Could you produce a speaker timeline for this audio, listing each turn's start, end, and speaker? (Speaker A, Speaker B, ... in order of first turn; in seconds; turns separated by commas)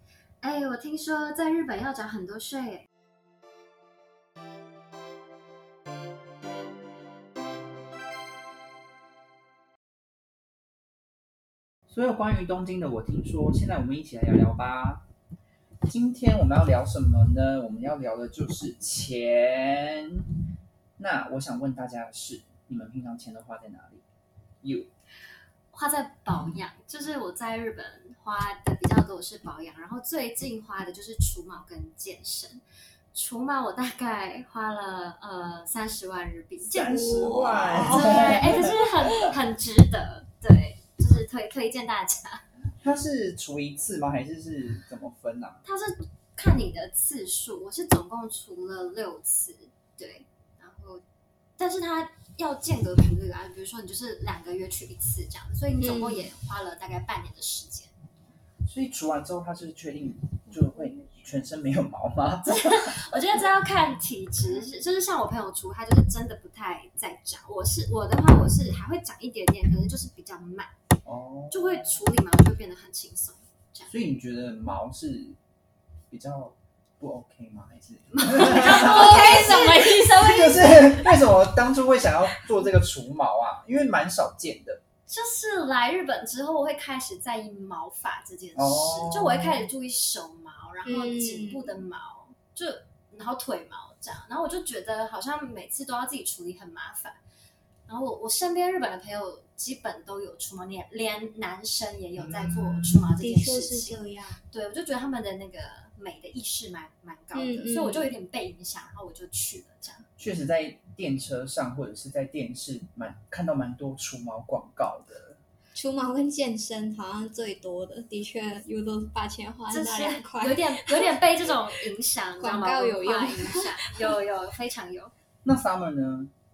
Speaker A: 0.4-2.9, Speaker B: 11.9-15.0, Speaker B: 15.9-20.3, Speaker B: 21.0-24.0, Speaker B: 24.6-24.9, Speaker A: 25.7-32.6, Speaker A: 33.1-42.4, Speaker B: 36.7-39.3, Speaker C: 36.9-38.3, Speaker B: 42.8-45.6, Speaker A: 45.6-51.0, Speaker A: 51.6-57.9, Speaker C: 55.8-56.3, Speaker B: 58.6-63.0, Speaker A: 62.4-70.7, Speaker B: 71.0-72.0, Speaker A: 71.5-73.9, Speaker B: 73.9-75.4, Speaker B: 76.1-84.8, Speaker A: 78.1-81.3, Speaker C: 78.6-80.5, Speaker A: 85.1-97.2, Speaker B: 88.5-89.7, Speaker C: 90.8-91.7, Speaker A: 97.9-104.0, Speaker B: 102.2-103.2, Speaker C: 103.2-104.4, Speaker A: 104.5-110.0, Speaker C: 107.3-108.1, Speaker B: 110.2-115.4, Speaker C: 115.7-121.8, Speaker A: 119.7-125.1, Speaker C: 122.4-123.9, Speaker B: 125.4-126.3